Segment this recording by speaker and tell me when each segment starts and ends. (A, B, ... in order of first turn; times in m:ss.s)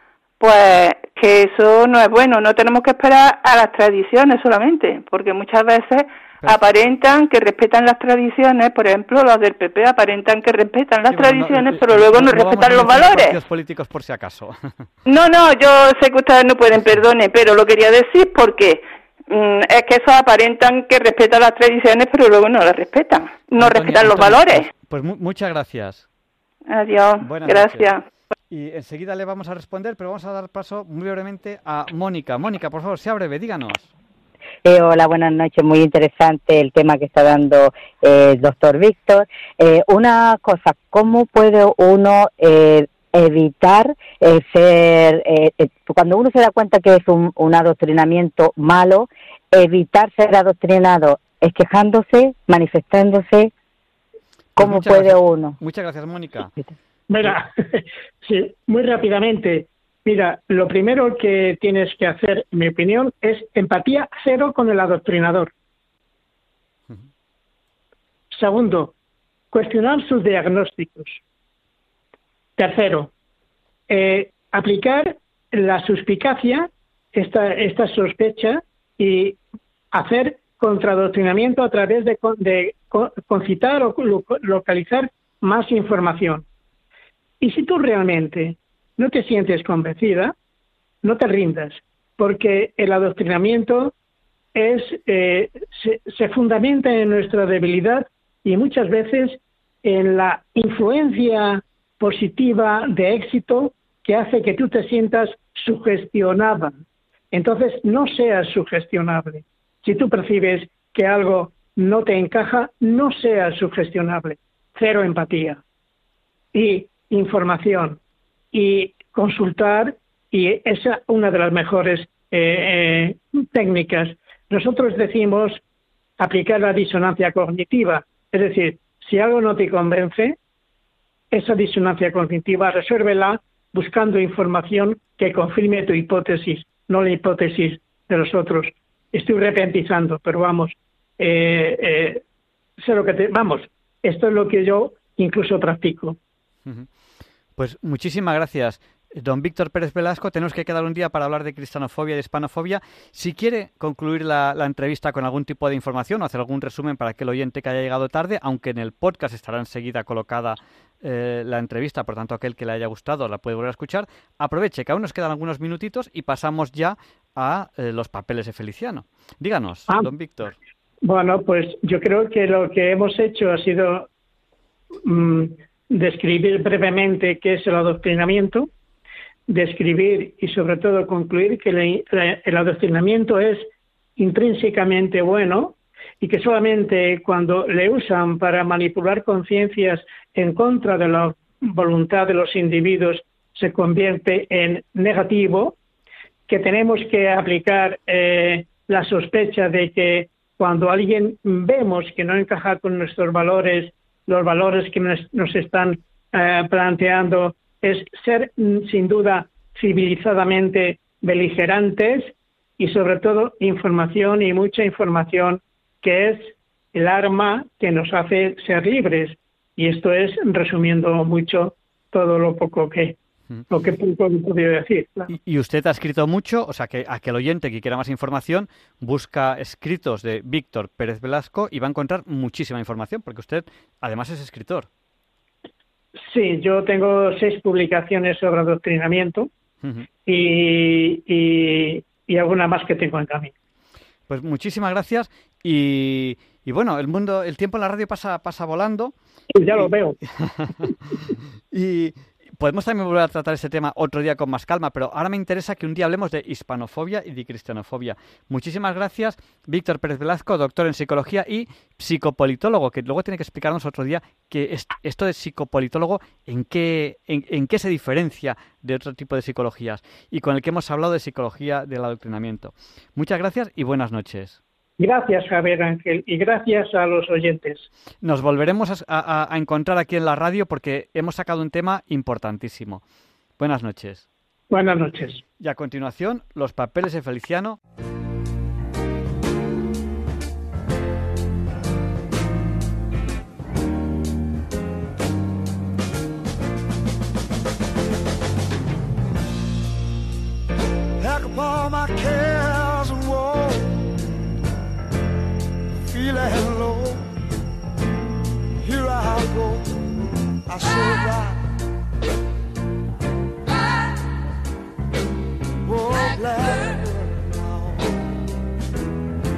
0:00.4-0:13.4 A
0:11.1-0:14.9 B
0:15.0-0:24.7 A
0:23.6-0:26.1 B
0:26.7-0:28.0 A
0:27.2-0:27.9 B
0:28.5-0:33.9 B
0:34.6-0:53.5 C
0:54.6-0:56.5 B
0:54.6-0:55.5 C
0:57.1-1:05.5 D
1:08.3-1:08.9 D
1:09.5-1:11.2 D
1:12.6-1:13.1 D
1:13.9-1:19.4 D
1:19.9-1:26.4 D
1:27.4-1:30.3 D
1:31.0-1:33.9 D
1:34.5-1:46.8 D
1:47.3-1:55.6 D
1:56.5-1:58.0 D
1:58.5-2:05.6 D
2:06.2-2:10.4 D
2:11.3-2:22.2 D
2:22.8-2:26.2 D
2:27.6-2:50.6 B
2:51.0-2:54.1 D
2:55.0-2:58.7 D
2:59.5-3:15.8 D
3:16.5-3:43.1 D
3:43.7-3:45.3 D
3:45.3-3:54.9 B
3:56.2-3:59.5 D
4:00.2-4:03.5 D
4:04.3-4:09.1 B
4:09.5-4:10.2 D
4:09.8-4:10.9 B
4:11.7-4:34.6 B
4:35.0-4:37.9 D
4:38.2-4:43.0 B
4:43.6-4:44.2 B
4:44.7-4:45.4 D
4:45.6-4:47.8 B
5:01.2-5:03.9 E
5:06.1-5:07.2 E
5:08.8-5:09.9 E
5:10.7-5:11.6 E
5:15.9-5:17.5 E